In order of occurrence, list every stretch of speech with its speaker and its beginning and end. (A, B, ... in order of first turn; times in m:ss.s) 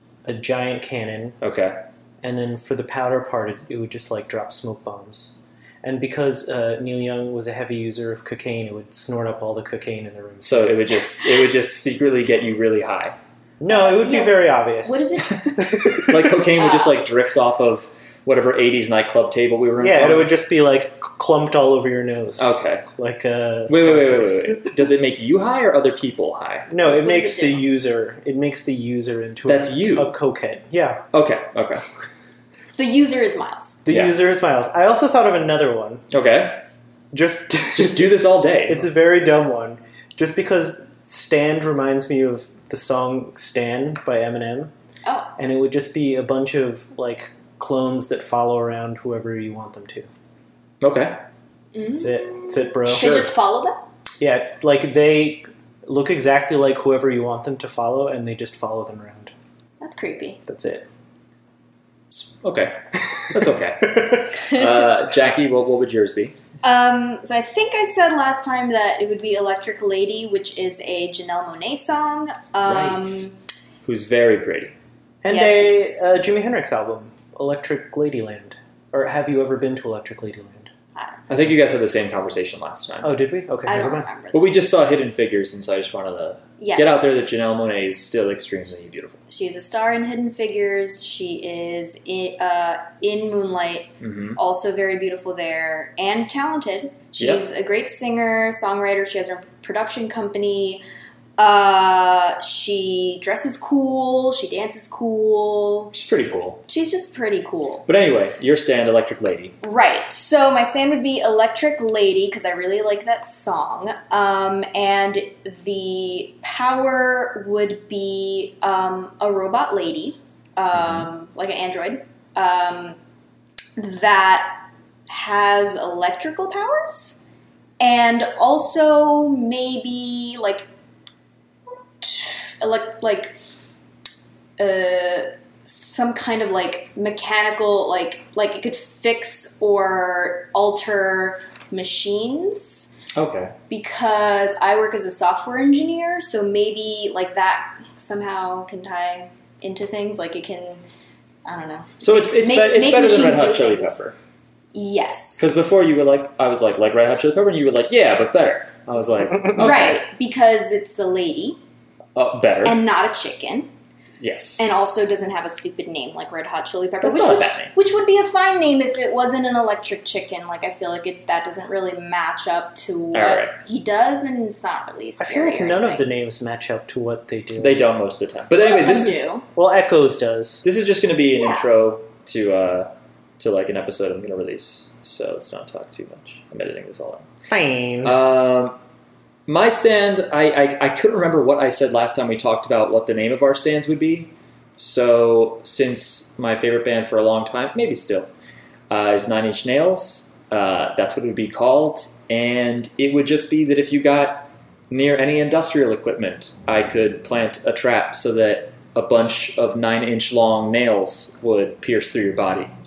0:00.2-0:01.4 A
0:01.4-0:01.8 B
0:02.2-0:10.8 A
0:10.4-0:13.2 B
0:13.6-0:16.5 A
0:13.7-0:15.5 C
0:15.6-0:20.4 B
0:16.6-0:17.0 C
0:19.8-0:24.9 A
0:22.4-0:22.8 B
0:23.7-0:26.7 B
0:26.7-0:31.0 A
0:26.8-0:27.7 C
0:29.5-0:30.2 B
0:31.1-0:31.8 B
0:32.8-0:33.8 C
0:33.9-0:36.0 A
0:33.9-0:34.2 B
0:36.1-0:36.6 B
0:37.1-0:44.7 A
0:37.8-0:38.9 B
0:45.0-0:45.3 C
0:45.4-0:50.1 A
0:50.8-0:51.2 B
0:51.7-0:52.3 C
0:52.0-0:53.3 A
0:52.8-0:53.8 C
0:54.2-0:59.3 A
0:59.8-1:00.4 C
1:00.5-1:00.9 A
1:02.1-1:06.4 B
1:03.9-1:04.2 A
1:06.6-1:13.4 C
1:12.6-1:13.3 B
1:13.8-1:14.8 B
1:15.2-1:20.7 A
1:15.3-1:16.1 C
1:21.0-1:21.2 C
1:21.3-1:23.2 B
1:23.0-1:24.1 A
1:23.7-1:24.7 C
1:24.3-1:29.2 B
1:26.6-1:27.1 C
1:29.3-1:40.8 C
1:34.0-1:34.4 B
1:37.2-1:37.4 B
1:41.4-1:45.9 C
1:45.9-1:46.6 B
1:46.7-1:47.9 C
1:47.9-1:49.6 B
1:49.6-2:03.0 C
2:00.8-2:01.1 B
2:03.8-2:07.2 C
2:07.8-2:10.7 C
2:12.0-2:13.4 C
2:14.6-2:22.9 C
2:23.1-2:23.6 B
2:23.7-2:30.8 C
2:31.4-2:34.0 C
2:32.0-2:34.2 B
2:34.7-2:35.5 C
2:35.4-2:40.0 B
2:39.6-2:41.6 C
2:42.2-2:42.8 B
2:42.6-2:43.7 C
2:44.2-2:44.8 B
2:44.6-2:56.0 C
2:47.0-2:47.7 B
2:53.1-2:53.6 B
2:55.2-2:57.8 A
2:57.6-2:59.4 B
2:58.5-2:59.4 C
2:59.6-3:00.7 A
3:00.6-3:07.2 B
3:01.4-3:01.7 C
3:07.5-3:08.2 A
3:08.0-3:08.8 B
3:09.5-3:18.3 B
3:18.9-3:32.7 B